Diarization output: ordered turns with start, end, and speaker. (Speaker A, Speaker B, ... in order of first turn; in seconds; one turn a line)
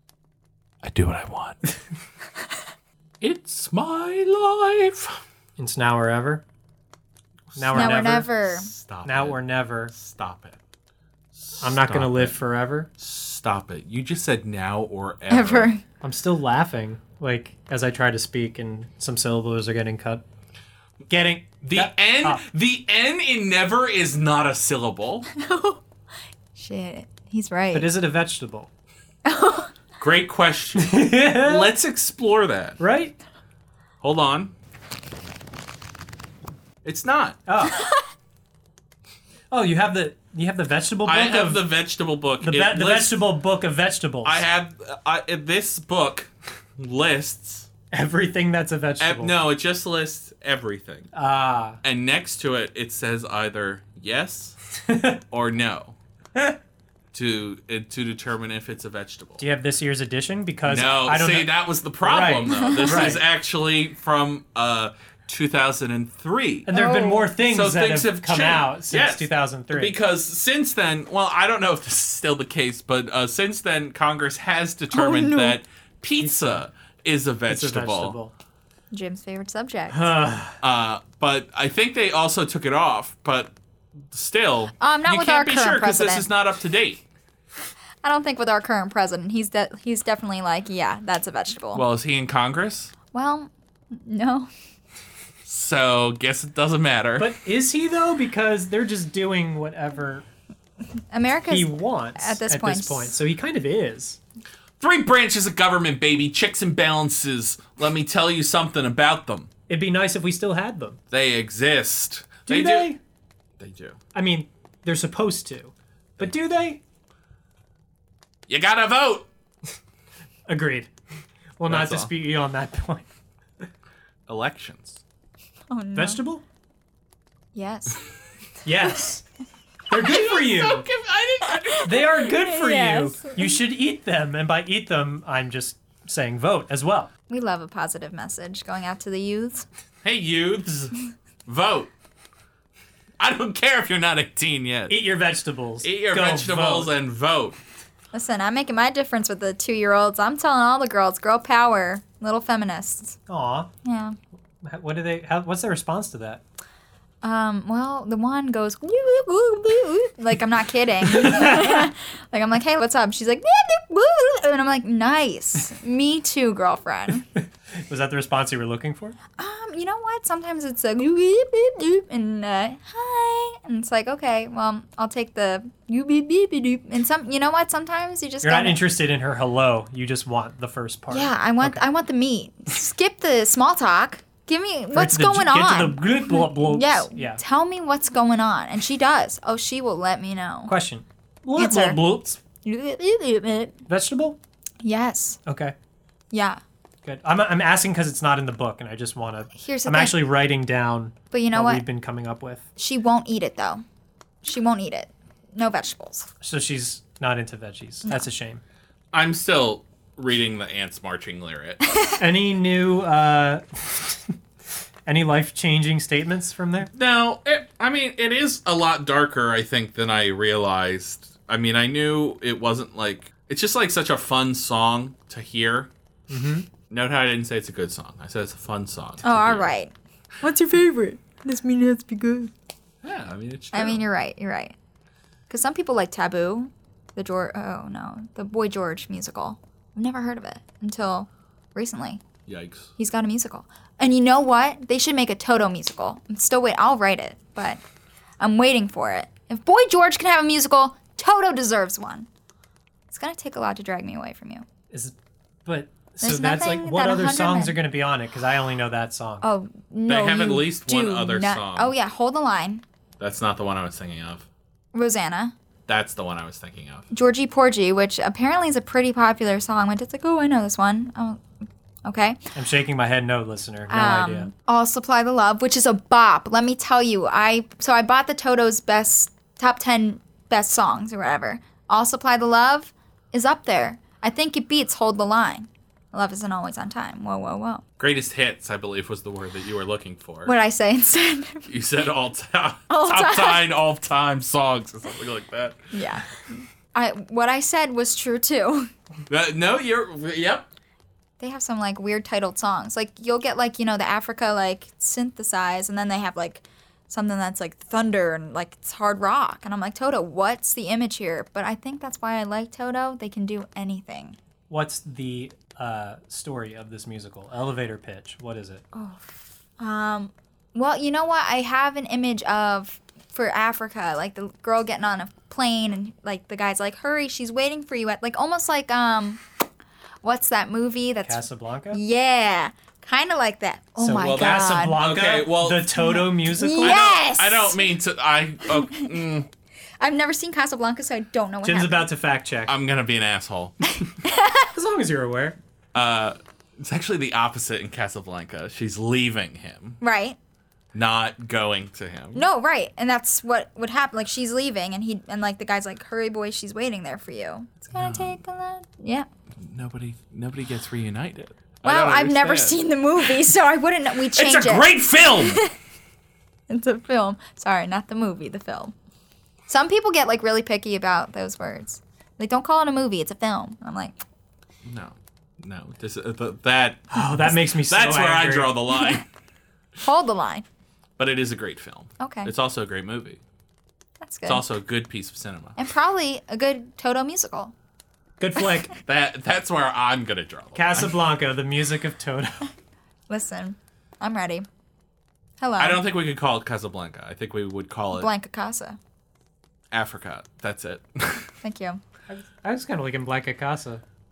Speaker A: 0.8-1.6
Speaker A: 3.2-5.2
Speaker B: 5.6-6.4
Speaker A: 7.5-10.6
Speaker B: 7.5-8.3
Speaker C: 7.7-8.7
Speaker B: 9.0-9.9
Speaker A: 11.3-12.4
Speaker B: 11.6-12.9
Speaker A: 13.0-15.7
Speaker C: 15.3-15.8
Speaker B: 16.0-20.2
Speaker B: 21.1-22.4
Speaker A: 21.6-25.3
Speaker C: 25.3-25.8
Speaker C: 26.5-27.9
Speaker B: 27.7-28.7
Speaker C: 29.2-29.7
Speaker A: 30.0-32.8
Speaker B: 30.8-31.7
Speaker B: 32.8-33.1
Speaker A: 34.0-34.5
Speaker A: 36.8-37.4
Speaker B: 37.5-37.8
Speaker B: 39.5-41.6
Speaker A: 41.0-43.2
Speaker B: 42.4-44.4
Speaker A: 44.2-47.7
Speaker B: 47.9-49.3
Speaker A: 49.0-51.1
Speaker B: 51.1-51.8
Speaker A: 51.8-54.6
Speaker B: 54.9-55.2
Speaker A: 55.3-56.0
Speaker A: 57.1-59.4
Speaker B: 59.4-63.2
Speaker A: 60.6-66.7
Speaker C: 62.5-63.1
Speaker B: 66.7-70.0
Speaker C: 66.7-67.3
Speaker A: 67.4-78.2
Speaker C: 74.9-75.6
Speaker B: 76.2-76.6
Speaker B: 77.5-78.3
Speaker C: 78.9-80.1
Speaker B: 79.9-80.6
Speaker A: 80.6-83.5
Speaker A: 84.1-87.0
Speaker C: 84.8-86.3
Speaker C: 88.0-91.8
Speaker A: 91.7-92.9
Speaker C: 93.1-94.5
Speaker A: 95.4-97.3
Speaker B: 97.2-100.2
Speaker C: 101.1-103.1
Speaker B: 101.5-104.2
Speaker A: 104.8-109.5
Speaker B: 109.7-111.0
Speaker A: 111.1-112.9
Speaker B: 112.5-113.0
Speaker A: 113.6-114.0
Speaker B: 114.1-116.8
Speaker A: 118.5-119.3
Speaker B: 120.5-120.9
Speaker B: 121.6-123.1
Speaker A: 121.7-122.1
Speaker A: 124.3-125.0
Speaker C: 125.7-126.2
Speaker B: 125.9-126.4
Speaker C: 127.5-128.0
Speaker B: 128.6-129.2
Speaker B: 129.9-130.9
Speaker A: 129.9-132.0
Speaker C: 131.6-133.6
Speaker B: 131.8-137.1
Speaker C: 137.3-139.7
Speaker A: 140.0-140.9
Speaker A: 141.4-141.9
Speaker A: 143.2-145.0
Speaker B: 144.9-146.9
Speaker A: 145.8-147.6
Speaker C: 148.1-153.2
Speaker B: 153.3-153.7
Speaker C: 153.8-154.2
Speaker B: 154.6-156.4
Speaker C: 157.2-167.2
Speaker B: 161.1-161.9
Speaker B: 167.9-169.2
Speaker C: 169.4-178.8
Speaker B: 178.4-181.8
Speaker C: 181.1-190.7
Speaker B: 184.9-187.4
Speaker B: 190.7-192.4
Speaker C: 191.6-192.0
Speaker C: 192.6-193.8
Speaker B: 193.9-194.4
Speaker C: 194.8-195.4
Speaker B: 195.4-195.7
Speaker C: 196.3-196.6
Speaker B: 197.0-202.6
Speaker C: 199.5-200.2
Speaker C: 201.3-201.8
Speaker C: 202.8-203.8
Speaker C: 204.4-206.3
Speaker B: 206.4-208.6
Speaker A: 209.1-211.8
Speaker B: 212.2-214.3
Speaker B: 215.1-216.9
Speaker A: 216.9-225.9
Speaker B: 226.3-226.7
Speaker A: 226.9-229.7
Speaker C: 229.2-232.5
Speaker A: 233.0-234.0
Speaker C: 233.7-234.7
Speaker C: 235.5-242.2
Speaker A: 242.5-242.9
Speaker C: 243.0-247.8
Speaker C: 248.4-252.3
Speaker C: 253.1-254.6
Speaker B: 254.9-259.4
Speaker C: 256.2-257.8
Speaker C: 259.4-262.8
Speaker A: 260.1-261.9
Speaker A: 263.2-264.5
Speaker C: 264.9-265.5
Speaker A: 265.9-267.1
Speaker C: 267.1-271.4
Speaker C: 272.0-272.4
Speaker B: 272.5-274.5
Speaker C: 273.9-287.8
Speaker A: 288.0-290.5
Speaker C: 290.4-291.7
Speaker A: 291.7-295.9
Speaker C: 292.9-293.6
Speaker C: 295.9-296.4
Speaker C: 296.9-298.9
Speaker A: 299.3-300.7
Speaker C: 301.4-314.4
Speaker B: 314.7-318.8
Speaker C: 318.9-329.4
Speaker C: 330.2-335.0
Speaker B: 331.2-332.0
Speaker B: 334.0-337.0
Speaker A: 334.2-335.9
Speaker C: 336.0-337.8
Speaker A: 336.8-339.5
Speaker C: 340.0-342.1
Speaker B: 341.6-342.7
Speaker A: 342.7-343.8
Speaker C: 343.9-344.7
Speaker B: 344.7-345.6
Speaker A: 345.9-350.0
Speaker C: 350.0-350.4
Speaker A: 350.9-352.4
Speaker C: 352.3-359.3
Speaker A: 357.9-358.4
Speaker A: 359.6-363.4
Speaker C: 361.8-365.7
Speaker A: 364.3-365.6
Speaker C: 366.7-368.9
Speaker C: 369.7-374.1
Speaker A: 374.8-379.2
Speaker B: 377.1-378.7
Speaker C: 380.0-380.6
Speaker A: 381.2-383.4
Speaker C: 382.2-382.5
Speaker C: 384.2-384.6
Speaker A: 384.4-385.8
Speaker C: 385.8-387.7
Speaker B: 388.4-388.9
Speaker A: 389.0-391.1
Speaker B: 390.7-392.7
Speaker C: 393.3-394.6
Speaker C: 395.6-396.0
Speaker A: 395.8-398.3
Speaker C: 398.1-399.0
Speaker A: 399.9-401.5
Speaker C: 401.6-402.0
Speaker B: 402.3-404.0